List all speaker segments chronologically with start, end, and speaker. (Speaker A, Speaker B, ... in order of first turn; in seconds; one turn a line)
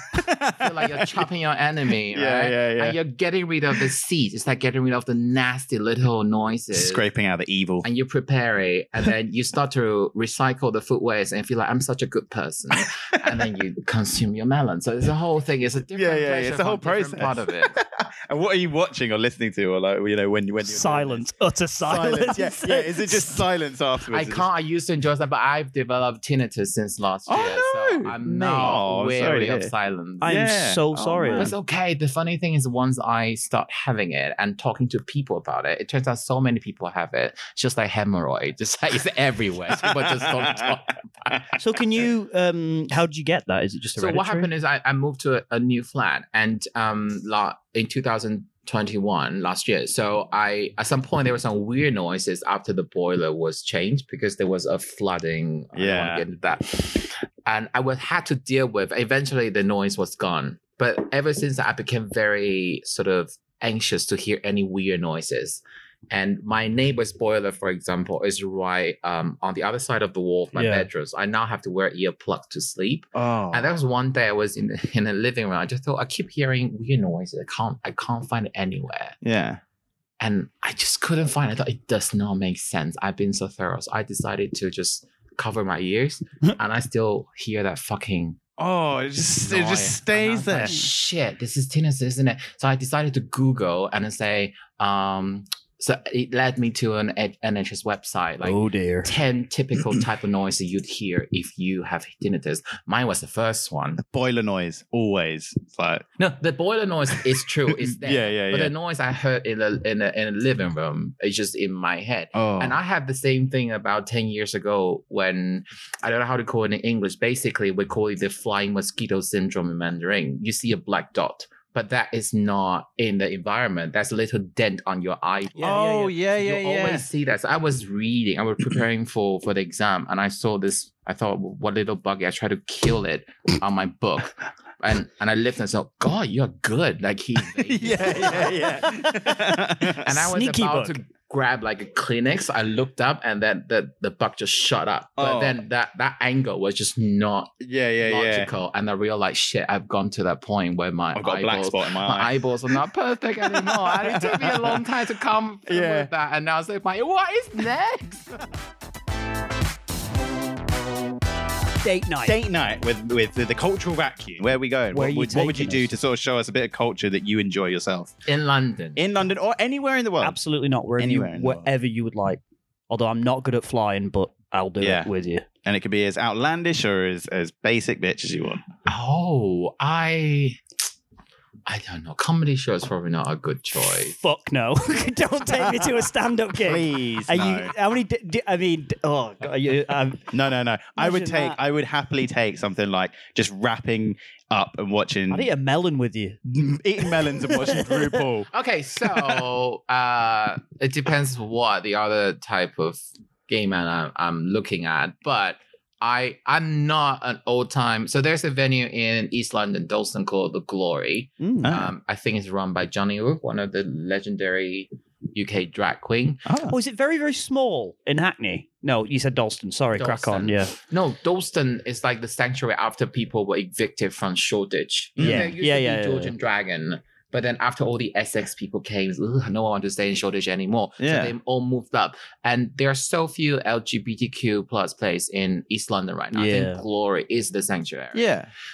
Speaker A: 0.1-1.3
Speaker B: 0.5-7.0
Speaker A: 2.1-3.0
Speaker A: 6.7-7.9
Speaker B: 7.8-17.8
Speaker A: 15.9-21.3
Speaker C: 20.6-23.4
Speaker A: 21.8-24.5
Speaker B: 24.1-30.4
Speaker A: 27.3-29.7
Speaker C: 28.2-28.8
Speaker C: 30.2-31.5
Speaker A: 30.2-31.5
Speaker B: 31.3-41.5
Speaker A: 39.8-40.6
Speaker C: 41.6-44.5
Speaker B: 44.0-79.2
Speaker A: 55.8-56.2
Speaker C: 70.5-70.9
Speaker A: 73.2-73.7
Speaker A: 79.2-79.6
Speaker B: 80.2-88.4
Speaker A: 88.6-90.9
Speaker B: 89.4-104.0
Speaker C: 98.4-99.1
Speaker A: 104.0-106.0
Speaker B: 106.2-138.9
Speaker A: 107.7-108.7
Speaker A: 112.3-112.8
Speaker C: 125.6-126.1
Speaker A: 125.6-127.1
Speaker A: 137.7-140.1
Speaker B: 140.0-158.4
Speaker C: 140.1-141.0
Speaker A: 145.2-145.6
Speaker A: 147.6-148.5
Speaker A: 151.2-152.8
Speaker A: 153.4-154.8
Speaker A: 155.7-156.1
Speaker C: 161.8-162.4
Speaker A: 162.2-168.2
Speaker C: 164.9-165.9
Speaker B: 168.3-169.0
Speaker A: 169.0-170.4
Speaker C: 170.2-175.5
Speaker A: 171.0-171.7
Speaker A: 174.8-175.1
Speaker A: 175.6-178.6
Speaker B: 178.9-180.6
Speaker B: 181.7-184.2
Speaker C: 184.1-190.3
Speaker A: 186.6-187.7
Speaker A: 190.3-195.5
Speaker C: 191.0-191.6
Speaker C: 195.3-196.4
Speaker A: 196.4-198.5
Speaker C: 197.1-198.2
Speaker B: 198.5-216.4
Speaker A: 199.1-199.5
Speaker C: 211.4-211.7
Speaker A: 211.6-211.9
Speaker A: 216.5-216.8
Speaker C: 216.7-220.8
Speaker B: 220.0-238.3
Speaker A: 225.2-225.5
Speaker C: 225.2-226.3
Speaker A: 231.0-231.3
Speaker C: 236.3-236.8
Speaker A: 238.1-238.5